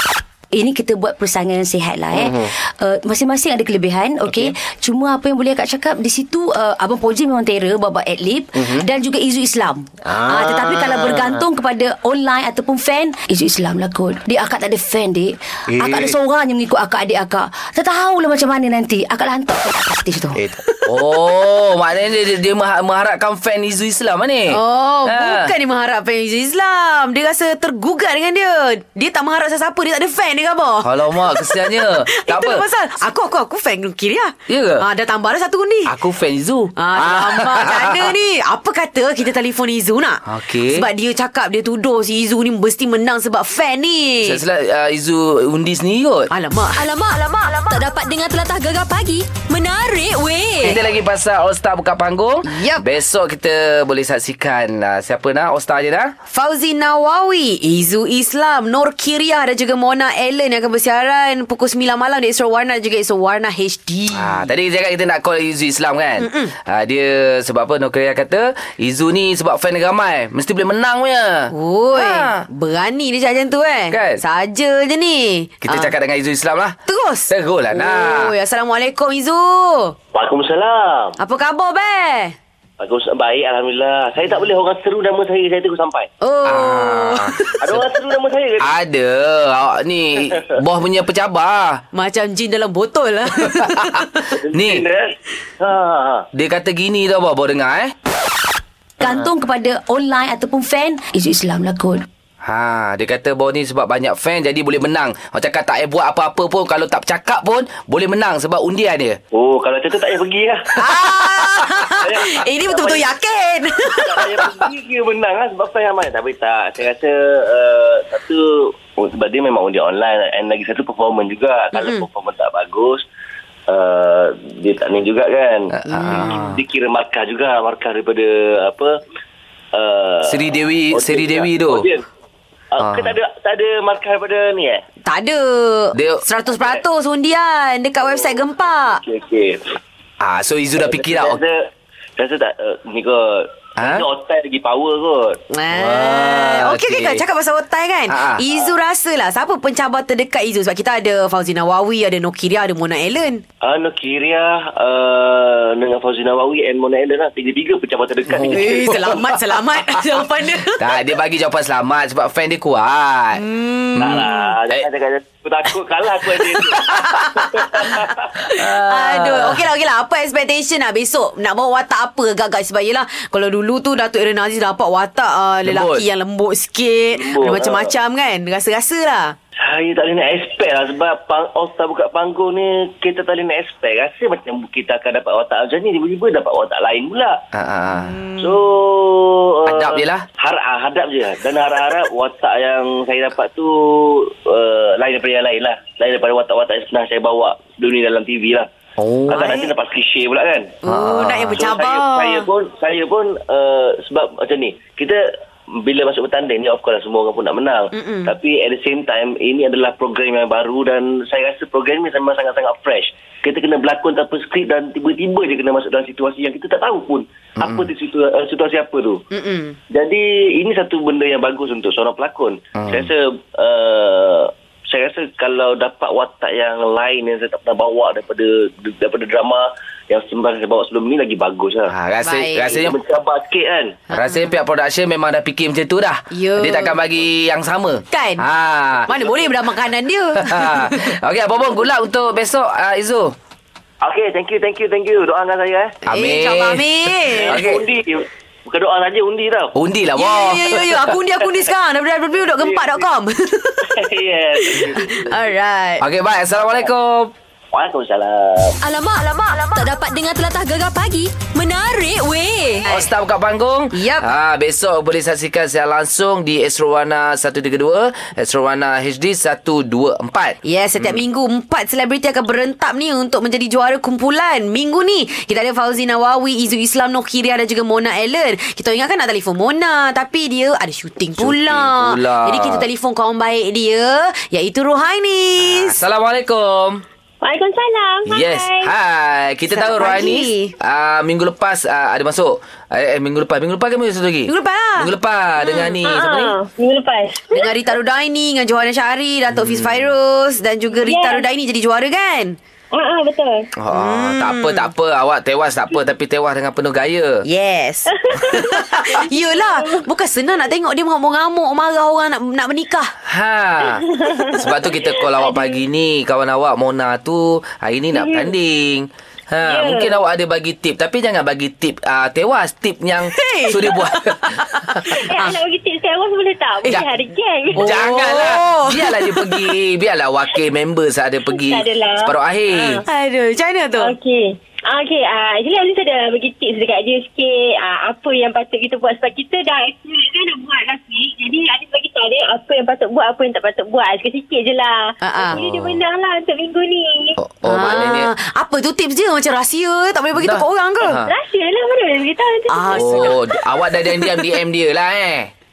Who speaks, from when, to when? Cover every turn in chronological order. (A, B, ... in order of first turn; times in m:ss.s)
0:00.5-0:20.4 A
0:02.2-0:02.5 B
0:10.1-0:11.4 B
0:15.7-0:16.2 B
0:20.4-0:25.5 B
0:24.5-0:35.9 C
0:30.8-0:32.6 B
0:34.5-0:34.8 B
0:35.8-0:38.0 B
0:36.8-0:44.4 C
0:40.2-0:40.8 B
0:44.2-0:46.3 B
0:46.3-0:46.9 C
0:46.8-0:50.7 D
0:50.6-0:56.1 B
0:52.4-0:52.9 C
0:56.3-1:04.5 C
1:04.1-1:12.4 B
1:06.2-1:06.5 C
1:11.5-1:15.9 C
1:13.9-1:14.2 B
1:15.6-1:16.8 B
1:16.9-1:19.9 C
1:17.3-1:18.3 B
1:20.1-1:21.1 E
1:21.2-1:22.3 C
1:22.8-1:26.1 E
1:26.2-1:27.5 C
1:26.4-1:27.9 B
1:27.6-1:28.7 E
1:28.6-1:31.8 B
1:31.9-1:34.4 C
1:34.4-1:36.3 E
1:34.5-1:34.8 B
1:36.3-1:37.9 B
1:39.0-1:42.0 A
1:42.4-1:49.2 B
1:49.3-1:51.1 E
1:50.7-1:54.6 C
1:51.6-1:53.1 E
1:53.9-2:03.0 E
2:01.7-2:02.0 C
2:03.7-2:08.9 E
2:05.8-2:06.6 B
2:05.9-2:06.6 C
2:09.7-2:12.0 E
2:10.2-2:11.9 B
2:12.7-2:14.8 E
2:12.8-2:13.1 B
2:15.0-2:19.0 C
2:15.9-2:16.2 B
2:18.0-2:19.6 E
2:20.2-2:21.4 B
2:20.8-2:25.4 E
2:23.8-2:24.0 B
2:25.5-2:33.4 C
2:25.7-2:27.2 B
2:28.1-2:28.4 B
2:33.6-2:39.0 E
2:38.3-2:39.3 B
2:38.5-2:40.8 C
2:40.8-2:43.4 B
2:43.4-2:44.5 C
2:43.9-2:44.9 B
2:44.0-2:48.2 E
2:46.3-2:59.4 C
2:48.5-2:49.6 B
2:55.6-2:56.0 B
2:57.1-2:57.9 E
2:59.6-3:07.4 E
3:07.5-3:08.2 B
3:08.0-3:08.3 C
3:08.4-3:18.7 E
3:09.7-3:10.2 B
3:19.0-3:19.4 B
3:19.3-3:19.7 C
3:19.3-3:20.8 E
3:20.8-3:22.5 C
3:20.9-3:21.6 B
3:21.5-3:25.2 E
3:25.8-3:39.2 E
3:27.9-3:28.4 C
3:37.6-3:37.9 B
3:39.3-3:39.8 C
3:39.9-3:51.9 E
3:42.8-3:43.1 B
3:51.9-3:53.0 B
3:52.2-3:52.7 C
3:52.7-3:54.0 E
3:54.1-3:54.5 C
3:54.1-3:59.1 B
3:56.3-3:57.0 C
3:58.1-3:58.4 C
3:59.1-4:01.1 C
4:00.4-4:03.4 B
4:04.0-4:05.9 E
4:06.0-4:06.8 B
4:06.1-4:07.6 C
4:07.3-4:09.8 E
4:07.4-4:07.8 B
4:09.7-4:10.6 B
4:10.1-4:14.0 C
4:12.6-4:13.0 E
4:13.9-4:15.4 E
4:14.6-4:16.0 C
4:16.0-4:17.3 B
4:17.7-4:18.8 E
4:18.8-4:22.9 D
4:22.9-4:31.2 B
4:23.9-4:24.3 C
4:30.6-4:46.0 C
4:41.4-4:42.9 B
4:45.6-4:47.0 B
4:47.4-4:48.9 F
4:48.3-4:56.5 B
4:49.7-4:50.7 C
4:54.5-4:55.1 C
4:55.6-4:57.7 F
4:57.5-5:02.6 C
4:59.5-5:00.1 B
5:01.0-5:01.4 F
5:02.9-5:03.7 F
5:03.8-5:07.4 B
5:03.9-5:04.9 C
5:07.4-5:13.1 C
5:08.3-5:09.7 F
5:13.2-5:25.1 B
5:14.2-5:15.8 F
5:18.1-5:18.5 F
5:19.6-5:20.2 F
5:23.3-5:25.6 C
5:25.1-5:28.0 F
5:27.7-5:29.7 C
5:27.7-5:33.0 B
5:31.5-5:33.0 F
5:33.0-5:34.1 C
5:34.0-5:47.4 F
5:45.2-5:45.6 C
5:45.5-5:46.0 B
5:47.4-5:48.3 B
5:47.6-5:51.2 C
5:50.4-5:51.3 B
5:51.2-5:53.5 F
5:52.7-5:53.4 C
5:52.9-5:55.5 B